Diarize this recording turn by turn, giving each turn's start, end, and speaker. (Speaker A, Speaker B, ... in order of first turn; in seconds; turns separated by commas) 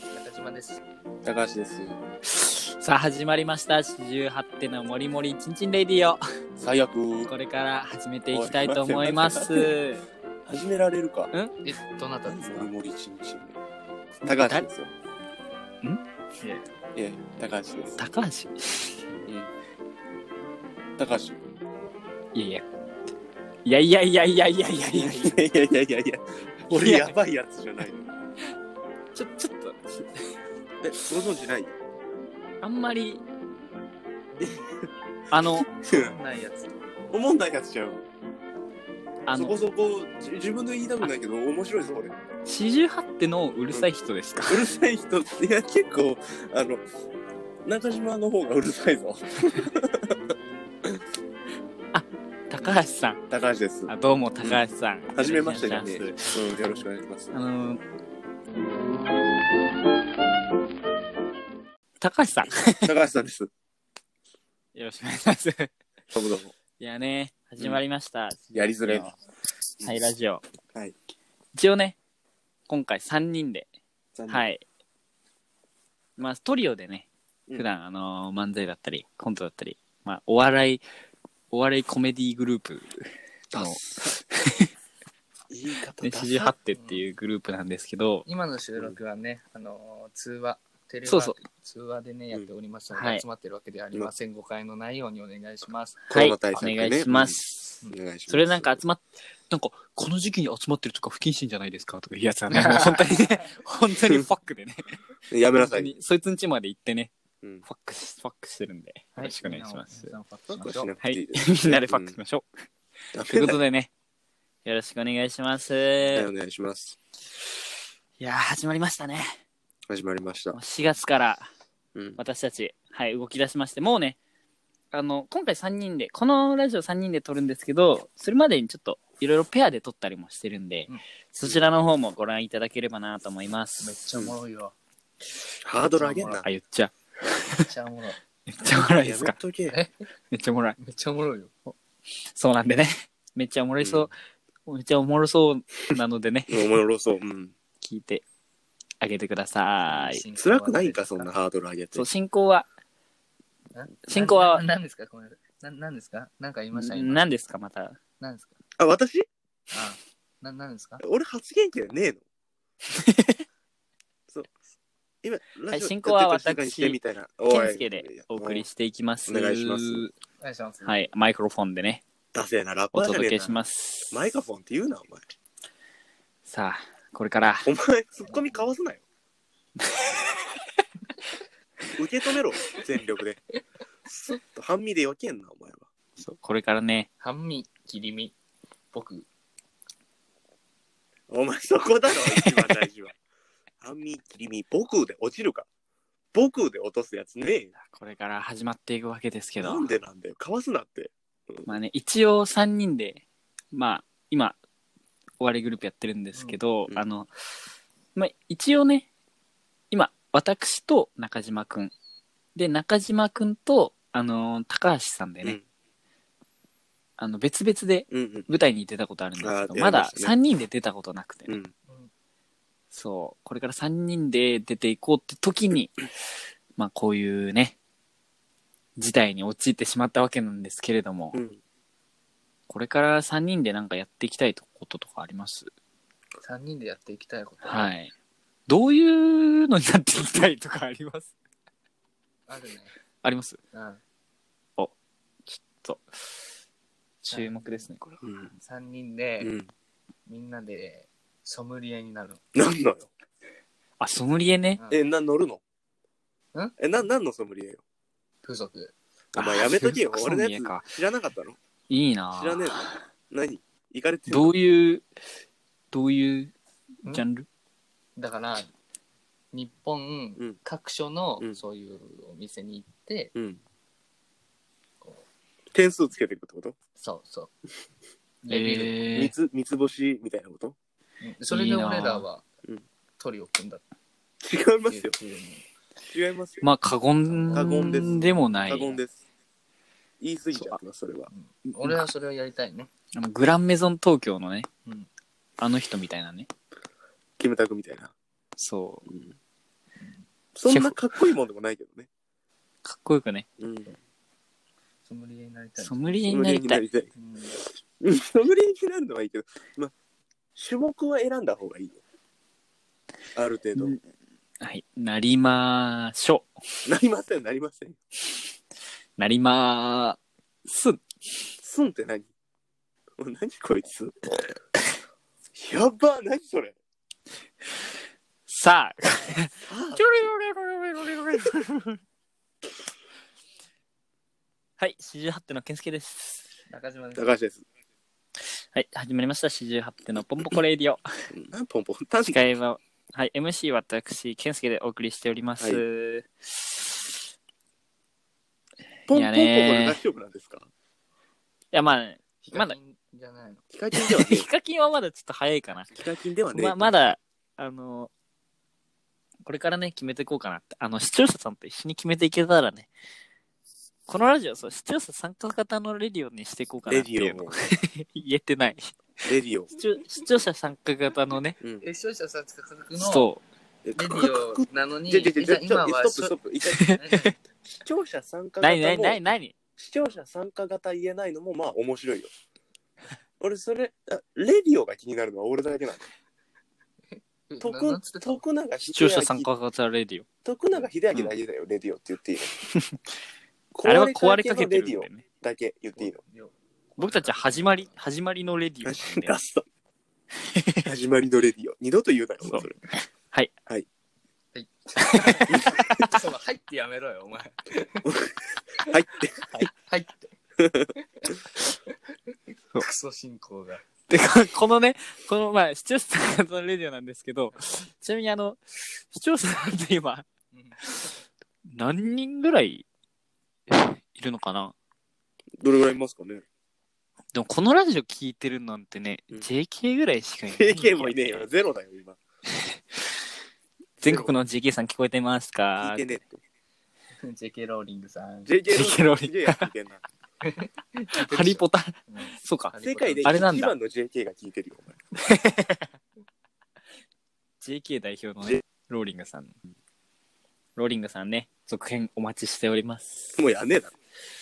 Speaker A: 0.1-0.8, Speaker B: 1.2-2.0, Speaker C: 2.3-6.2, Speaker B: 6.6-7.3, Speaker C: 7.3-10.0, Speaker B: 8.3-9.8, Speaker B: 10.5-11.3, Speaker A: 11.6-12.7, Speaker B: 12.2-13.6, Speaker B: 14.2-14.9, Speaker C: 14.3-14.7, Speaker C: 15.8-16.6, Speaker B: 17.0-18.0, Speaker C: 18.0-19.0, Speaker B: 21.0-21.4, Speaker C: 22.3-22.7, Speaker C: 23.6-25.4, Speaker B: 25.0-28.1, Speaker C: 26.7-27.2, Speaker C: 29.1-30.1, Speaker B: 30.8-31.7, Speaker C: 32.6-33.2, Speaker C: 35.3-35.7, Speaker B: 35.7-36.2, Speaker A: 35.9-36.8, Speaker B: 37.1-38.0, Speaker C: 39.3-39.6, Speaker B: 39.3-42.1, Speaker C: 42.5-44.6, Speaker B: 44.4-46.9, Speaker B: 47.6-50.2, Speaker C: 51.9-53.2, Speaker B: 53.3-54.6, Speaker C: 53.9-56.4, Speaker B: 55.1-57.3, Speaker C: 57.3-57.8, Speaker C: 62.0-63.0, Speaker B: 62.8-63.5, Speaker C: 64.8-65.7, Speaker B: 66.1-66.5, Speaker C: 66.8-69.2, Speaker B: 68.5-69.1, Speaker B: 69.8-70.1, Speaker C: 69.8-70.4, Speaker C: 71.5-72.0, Speaker C: 72.7-73.7, Speaker B: 74.2-74.5, Speaker C: 74.3-74.6, Speaker C: 76.2-80.8, Speaker C: 81.5-82.9, Speaker B: 83.5-84.2, Speaker C: 83.5-84.7, Speaker B: 85.5-86.5, Speaker C: 86.0-88.3, Speaker A: 86.7-87.0, Speaker A: 88.3-96.0, Speaker C: 91.1-91.4, Speaker C: 92.9-93.2, Speaker C: 96.1-105.0, Speaker B: 96.1-97.4, Speaker B: 97.9-98.8, Speaker A: 102.5-103.0, Speaker B: 105.3-105.9, Speaker C: 105.5-107.1, Speaker C: 107.7-110.1, Speaker A: 109.2-110.9, Speaker B: 110.5-112.2, Speaker C: 111.0-112.5, Speaker B: 113.1-113.6, Speaker C: 113.2-113.9, Speaker C: 114.7-116.3, Speaker B: 116.1-117.0, Speaker C: 118.2-119.4, Speaker B: 119.9-120.6, Speaker C: 120.5-121.5, Speaker C: 122.2-124.2, Speaker C: 124.9-134.0, Speaker A: 133.8-134.8, Speaker B: 135.6-136.5, Speaker A: 135.9-136.3, Speaker C: 136.1-137.7, Speaker A: 137.7-138.2, Speaker C: 138.5-139.4, Speaker B: 138.8-139.8, Speaker C: 140.3-140.8, Speaker A: 140.8-141.8, Speaker C: 142.2-144.1, Speaker B: 143.8-144.1, Speaker C: 144.7-146.7, Speaker B: 146.5-147.5, Speaker C: 147.8-148.2, Speaker C: 149.0-150.3, Speaker A: 149.9-151.3, Speaker B: 150.4-152.1, Speaker C: 151.9-152.7, Speaker A: 153.7-157.2, Speaker C: 154.1-154.7, Speaker C: 156.7-158.0, Speaker A: 158.2-158.6, Speaker B: 158.8-159.3, Speaker A: 159.7-161.0, Speaker B: 161.0-162.2, Speaker C: 162.9-163.4, Speaker B: 165.2-168.7, Speaker C: 165.7-170.2, Speaker B: 169.3-170.1, Speaker A: 170.4-171.1, Speaker C: 170.8-172.0, Speaker B: 172.3-173.6, Speaker C: 172.9-174.2, Speaker B: 174.1-175.2, Speaker C: 176.5-177.7, Speaker B: 177.7-179.0, Speaker A: 178.3-178.7, Speaker C: 179.8-180.5, Speaker B: 181.9-183.4, Speaker B: 184.1-185.9, Speaker C: 186.2-187.1, Speaker A: 187.2-188.3, Speaker A: 188.9-189.3, Speaker B: 191.3-193.2, Speaker C: 192.4-192.8, Speaker B: 193.8-195.7, Speaker B: 196.3-197.7, Speaker C: 197.8-199.9, Speaker B: 199.6-201.7, Speaker C: 201.7-204.6, Speaker C: 205.4-207.3, Speaker C: 208.2-209.1, Speaker C: 209.9-211.9, Speaker C: 212.6-215.6, Speaker C: 217.2-221.6, Speaker B: 218.1-218.5, Speaker B: 219.4-220.3, Speaker B: 221.5-221.7, Speaker C: 222.9-226.0, Speaker C: 226.8-227.8, Speaker C: 229.0-231.4, Speaker B: 231.3-231.6, Speaker C: 232.7-235.7, Speaker A: 236.4-237.9, Speaker C: 237.6-238.1, Speaker C: 238.7-241.3, Speaker A: 242.5-242.9, Speaker C: 243.2-243.6, Speaker A: 243.7-244.0, Speaker C: 245.5-246.3, Speaker C: 247.2-248.3, Speaker A: 247.3-247.9, Speaker B: 248.2-248.5, Speaker A: 248.6-249.5, Speaker B: 249.4-249.7, Speaker A: 250.3-252.4, Speaker B: 252.5-253.1, Speaker C: 254.0-254.8, Speaker B: 254.9-255.6, Speaker B: 256.8-257.8, Speaker A: 258.4-258.9, Speaker B: 259.4-261.6, Speaker C: 259.4-260.9, Speaker C: 261.9-263.0, Speaker B: 262.3-264.6, Speaker C: 264.3-265.1, Speaker C: 265.9-266.5, Speaker C: 267.1-267.5, Speaker A: 268.2-268.7, Speaker A: 269.5-273.3, Speaker B: 273.4-273.6, Speaker B: 275.7-276.8, Speaker A: 277.0-277.5, Speaker A: 278.4-279.0, Speaker C: 278.5-279.3, Speaker B: 279.1-280.8, Speaker A: 281.2-282.5, Speaker C: 281.5-282.3, Speaker A: 283.2-283.9, Speaker B: 284.4-285.1, Speaker A: 284.9-285.6, Speaker B: 286.1-286.7, Speaker C: 286.6-289.0, Speaker A: 287.3-288.3, Speaker B: 287.5-289.2, Speaker B: 290.2-291.3, Speaker C: 290.5-290.8, Speaker A: 291.3-292.9, Speaker C: 291.8-292.1, Speaker C: 293.1-294.7, Speaker C: 295.6-296.5, Speaker B: 297.4-298.1, Speaker C: 298.6-299.1, Speaker B: 299.1-299.3, Speaker B: 300.6-302.1, Speaker C: 300.7-301.0, Speaker C: 302.9-303.5, Speaker B: 303.6-304.0, Speaker A: 305.1-306.4, Speaker C: 305.8-306.8, Speaker B: 306.3-307.1, Speaker A: 307.1-307.6, Speaker B: 307.6-309.9, Speaker B: 310.6-312.0, Speaker B: 313.4-314.0, Speaker C: 314.6-316.5, Speaker B: 316.9-318.0, Speaker C: 319.2-321.1, Speaker B: 321.6-322.3, Speaker B: 323.2-324.5, Speaker B: 325.6-326.8, Speaker C: 328.5-332.0, Speaker B: 329.7-330.1, Speaker C: 334.8-336.4, Speaker A: 336.7-337.3, Speaker B: 337.2-337.6, Speaker C: 338.5-341.3, Speaker B: 341.3-342.4, Speaker C: 342.3-347.1, Speaker B: 349.1-350.7, Speaker C: 349.1-350.0, Speaker C: 351.7-352.8, Speaker A: 352.4-353.6, Speaker B: 353.7-354.5, Speaker C: 353.9-356.0, Speaker B: 355.9-356.9, Speaker C: 356.5-358.1, Speaker C: 359.4-362.9, Speaker C: 364.1-369.2, Speaker B: 366.9-367.6, Speaker B: 369.2-369.7, Speaker C: 369.7-371.6, Speaker B: 371.6-371.9, Speaker A: 371.8-373.3, Speaker C: 373.0-373.4, Speaker B: 373.9-377.0, Speaker A: 374.0-376.4, Speaker C: 376.7-377.4, Speaker A: 377.0-377.4, Speaker B: 377.8-379.2, Speaker C: 378.6-379.6, Speaker B: 379.8-382.3, Speaker B: 383.4-386.1, Speaker A: 387.2-388.4, Speaker B: 387.6-389.5, Speaker C: 388.9-390.3, Speaker B: 390.4-392.5, Speaker C: 392.7-393.0, Speaker B: 393.7-396.2, Speaker C: 393.9-395.2, Speaker A: 396.0-398.0, Speaker C: 397.0-399.4, Speaker B: 398.9-399.6, Speaker C: 400.4-400.9, Speaker B: 400.9-402.8, Speaker C: 402.4-403.5, Speaker A: 404.5-408.1, Speaker C: 405.0-406.1, Speaker B: 405.5-405.8, Speaker B: 408.0-409.7, Speaker A: 409.6-410.3, Speaker B: 410.6-410.9, Speaker A: 412.8-413.8, Speaker C: 414.1-420.3, Speaker A: 420.5-420.8, Speaker C: 420.8-422.9, Speaker C: 423.7-424.8, Speaker B: 425.6-426.4, Speaker C: 427.3-431.5, Speaker B: 430.5-432.2, Speaker C: 432.5-433.2, Speaker C: 434.0-436.2, Speaker B: 434.0-434.4, Speaker B: 435.8-436.4, Speaker A: 437.2-438.5, Speaker B: 438.5-440.0, Speaker C: 438.7-439.7, Speaker A: 440.4-443.5, Speaker C: 441.1-443.8, Speaker B: 442.8-445.0, Speaker C: 445.2-445.9, Speaker C: 447.6-449.6, Speaker C: 450.8-453.4, Speaker B: 453.4-453.9